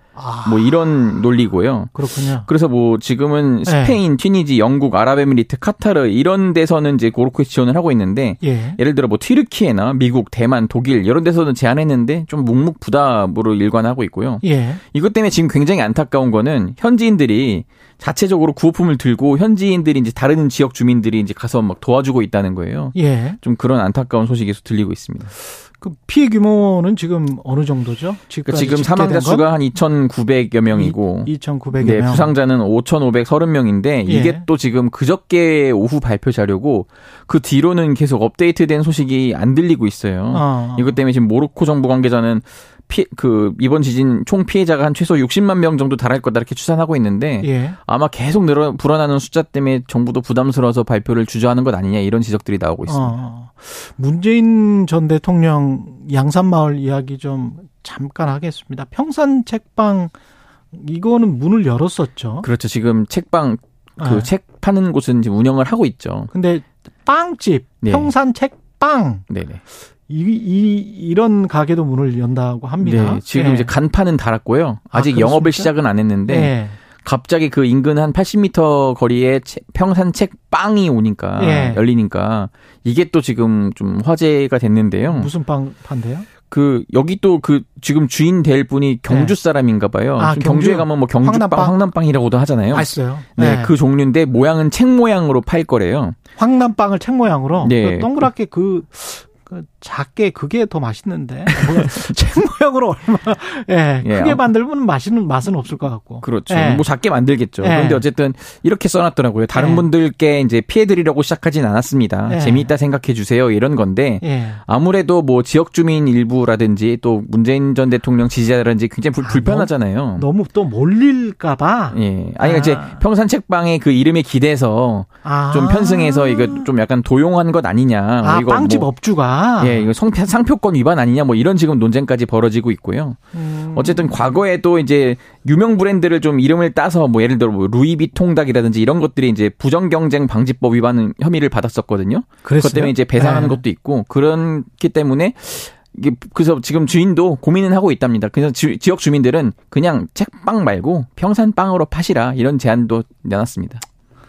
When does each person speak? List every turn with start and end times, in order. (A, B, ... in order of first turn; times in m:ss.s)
0:00.1-0:00.9 A
0:00.4-0:25.3 B
0:01.9-0:02.5 A
0:03.6-0:04.0 A
0:08.4-0:08.8 A
0:14.4-0:14.8 A
0:22.9-0:23.4 A
0:25.8-0:29.5 A
0:28.4-0:53.1 B
0:30.7-0:32.3 A
0:34.0-0:34.4 A
0:40.3-0:41.0 A
0:47.4-0:47.8 A
0:52.8-1:00.1 A
1:00.7-1:02.5 A
1:02.4-1:06.3 B
1:04.0-1:04.3 A
1:06.3-1:09.3 A
1:07.8-1:08.1 B
1:09.3-1:09.6 B
1:10.1-1:13.7 A
1:12.8-1:25.3 B
1:14.9-1:15.7 A
1:16.2-1:16.8 A
1:21.4-1:21.8 A
1:25.1-1:26.3 A
1:26.5-1:36.2 B
1:29.1-1:29.3 A
1:30.2-1:31.8 A
1:32.7-1:33.7 A
1:36.4-1:46.9 A
1:37.6-1:38.3 B
1:44.0-1:44.4 B
1:46.2-2:00.2 B
1:47.6-1:48.0 A
1:49.5-1:49.8 A
1:52.3-1:52.7 A
1:54.2-1:54.6 A
1:59.2-2:03.0 A
2:01.9-2:08.9 B
2:05.2-2:06.7 A
2:08.2-2:09.9 A
2:09.6-2:33.8 B
2:13.3-2:14.4 A
2:22.4-2:23.6 A